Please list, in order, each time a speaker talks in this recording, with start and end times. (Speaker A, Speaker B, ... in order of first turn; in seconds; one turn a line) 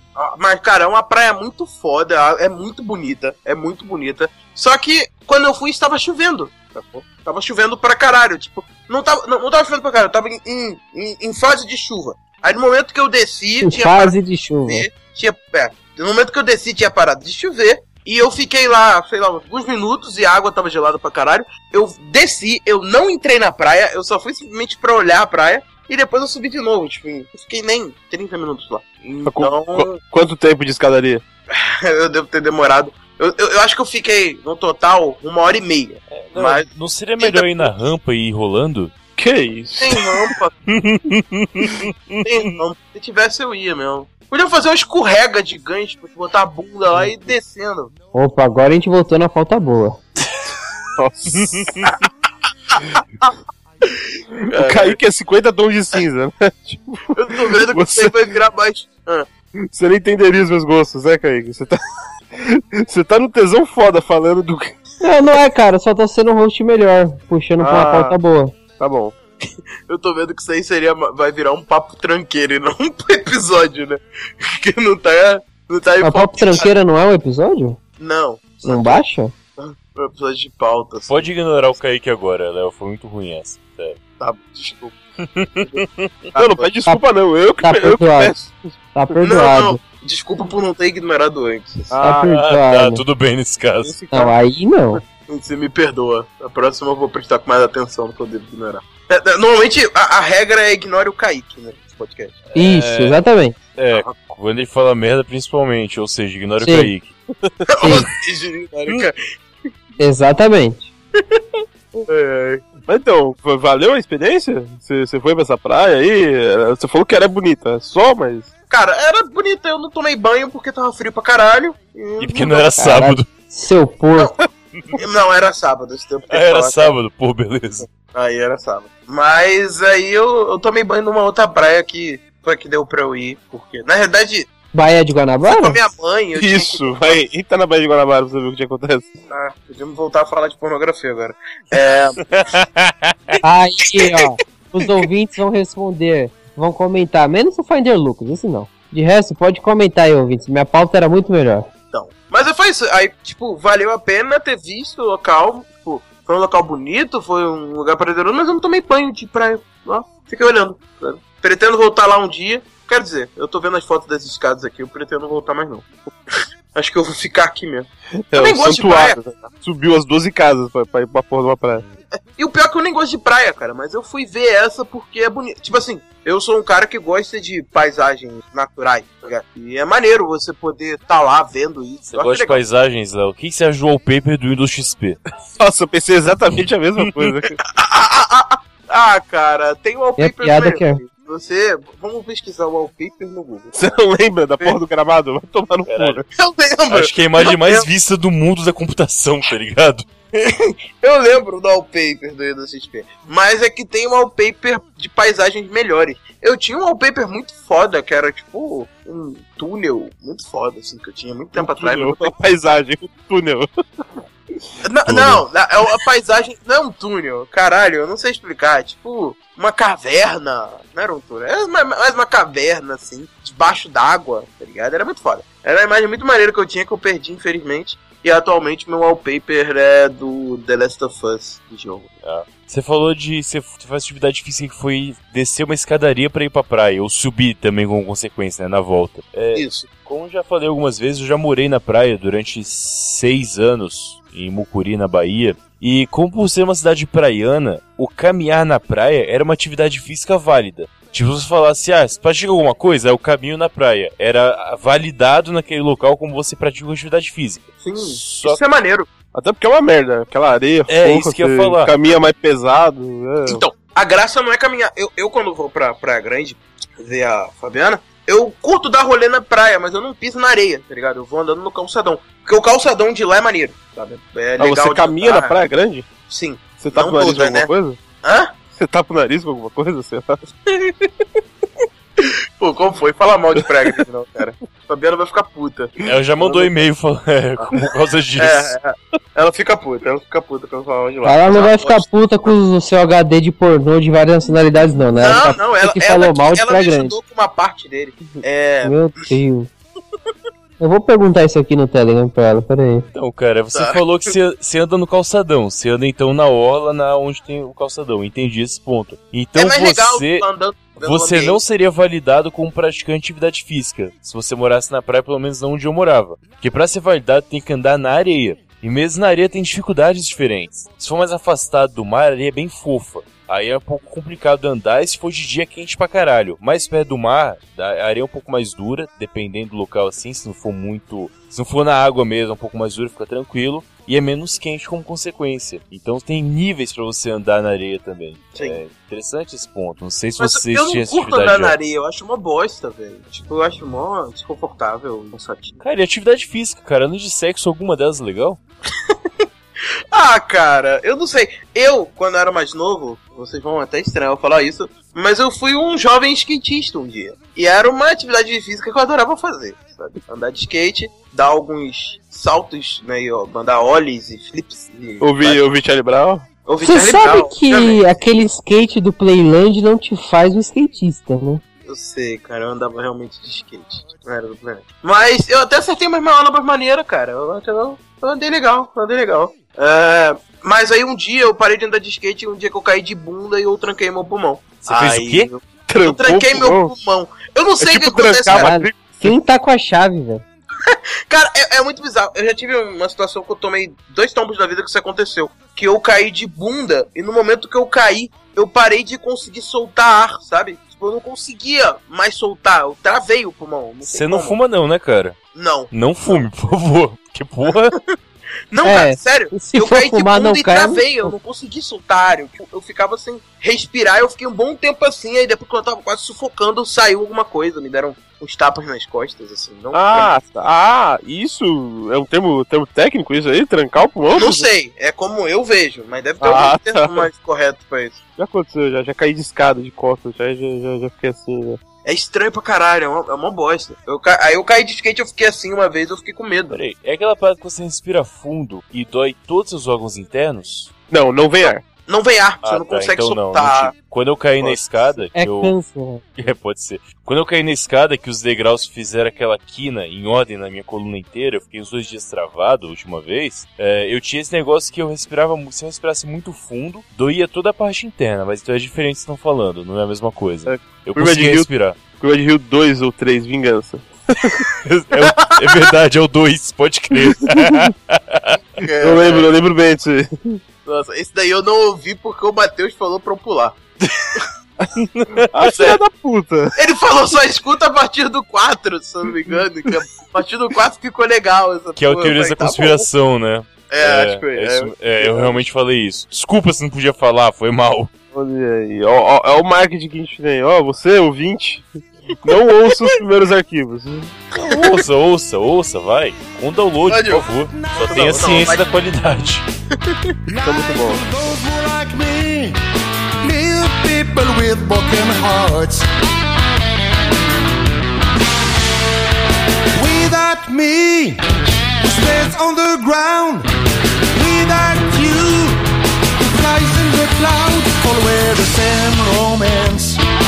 Speaker A: 0.1-29.9
Speaker B: 13.6-14.9
Speaker C: 29.2-31.2
Speaker A: 31.5-36.7
Speaker D: 36.1-38.9
Speaker A: 37.2-37.7
Speaker C: 39.2-40.0
Speaker A: 39.8-40.5
Speaker D: 40.7-42.5
Speaker A: 42.2-47.9
Speaker B: 48.1-50.0
Speaker C: 51.0-51.7
Speaker D: 51.4-51.7
Speaker A: 52.7-55.0
Speaker C: 54.5-58.2
Speaker A: 57.1-59.3
Speaker C: 59.7-61.8
Speaker C: 62.4-64.8
Speaker B: 65.0-68.5
Speaker C: 67.6-68.2
Speaker C: 68.8-69.1
Speaker A: 69.9-76.7
Speaker B: 76.0-77.8
Speaker A: 78.0-79.0
Speaker B: 78.7-79.3
Speaker A: 79.6-81.3
Speaker D: 81.1-84.0
Speaker A: 84.2-85.0
Speaker D: 85.4-86.1
Speaker A: 85.6-86.7
Speaker C: 86.4-88.8
Speaker B: 87.6-88.4
Speaker B: 89.0-89.8
Speaker A: 89.2-92.0
Speaker C: 91.9-92.4
Speaker B: 92.0-93.0
Speaker D: 92.3-94.0
Speaker A: 94.0-94.3
Speaker B: 94.1-95.0
Speaker A: 95.1-102.5
Speaker D: 102.5-103.2
Speaker B: 102.6-103.6
Speaker D: 103.8-107.1
Speaker B: 106.6-106.9
Speaker A: 107.7-109.2
Speaker B: 107.8-108.1
Speaker B: 110.0-110.9
Speaker A: 111.2-112.7
Speaker C: 112.9-118.5
Speaker A: 118.7-122.8
Speaker D: 122.2-123.3
Speaker B: 122.8-124.3
Speaker A: 125.0-126.9
Speaker D: 126.3-127.9
Speaker A: 128.1-134.5
Speaker B: 134.7-135.8
Speaker A: 135.4-137.2
Speaker C: 136.3-139.1
Speaker A: 139.3-142.2
Speaker D: 142.2-143.4
Speaker B: 143.4-151.7
Speaker A: 144.0-144.2
Speaker A: 151.9-166.1
Speaker A: 166.8-169.2
Speaker C: 168.3-171.8
Speaker A: 172.4-182.6
Speaker D: 182.1-185.2
Speaker C: 185.6-187.6
Speaker A: 187.6-194.0
Speaker B: 190.2-191.0
Speaker C: 193.8-196.3
Speaker D: 195.9-196.2
Speaker A: 196.3-197.8
Speaker D: 196.9-200.1
Speaker A: 200.3-212.3
Speaker C: 211.6-213.7
Speaker A: 214.8-232.1
Speaker D: 215.1-215.4
Speaker D: 232.2-258.6
Speaker A: 239.5-239.9
Speaker A: 257.8-259.1
Speaker C: 259.3-263.6
Speaker D: 260.9-261.9
Speaker A: 263.5-275.6
Speaker C: 274.6-276.1
Speaker A: 276.3-277.7
Speaker C: 276.8-278.0
Speaker A: 278.2-278.5
Speaker C: 278.7-280.4
Speaker A: 280.7-281.1
Speaker A: 282.2-286.8
Speaker D: 286.1-288.8
Speaker A: 288.4-292.6
Speaker B: 291.2-297.1
Speaker A: 295.2-299.1
Speaker B: 298.8-299.7
Speaker B: 300.8-303.1
Speaker D: 303.1-310.4
Speaker A: 303.7-304.4
Speaker A: 309.6-311.6
Speaker D: 311.0-341.8
Speaker A: 340.4-345.8
Speaker D: 345.8-348.6
Speaker A: 349.1-349.5
Speaker A: 350.1-365.7
Speaker C: 365.2-366.5
Speaker A: 366.7-368.0
Speaker B: 366.8-371.6
Speaker A: 371.9-388.8
Speaker D: 384.8-385.5
Speaker C: 385.9-386.9
Speaker C: 387.8-389.4
Speaker B: 388.5-390.4
Speaker A: 390.9-404.6
Speaker D: 404.0-405.4
Speaker A: 405.6-406.5
Speaker D: 405.9-407.9
Speaker A: 408.7-420.3
Speaker B: 408.8-411.3
Speaker C: 419.9-424.7
Speaker A: 424.3-428.2
Speaker C: 426.4-427.3
Speaker C: 428.4-431.8
Speaker A: 432.1-436.8
Speaker D: 436.7-440.9
Speaker C: 441.1-441.8
Speaker A: 442.1-443.9
Speaker D: 442.6-445.8
Speaker A: 444.6-445.2
Speaker B: 445.4-446.4
Speaker D: 446.4-462.0
Speaker C: 460.7-464.6
Speaker D: 464.8-468.6
Speaker C: 467.4-467.9
Speaker A: 468.8-469.5
Speaker C: 469.0-470.6
Speaker A: 470.9-473.8
Speaker D: 475.0-475.9
Speaker C: 475.5-476.7
Speaker A: 476.8-483.1
Speaker D: 482.0-488.1
Speaker A: 483.9-485.6
Speaker C: 488.3-491.9
Speaker C: 492.4-494.3
Speaker A: 494.6-495.0
Speaker D: 494.6-499.7
Speaker A: 497.1-497.5
Speaker E: 497.7-498.7
Speaker A: 498.0-498.9
Speaker E: 500.5-502.8
Speaker C: 500.6-501.2
Speaker E: 503.4-506.1
Speaker E: 509.9-511.4
Speaker E: 512.0-513.7
Speaker E: 514.3-515.8
Speaker E: 516.4-520.2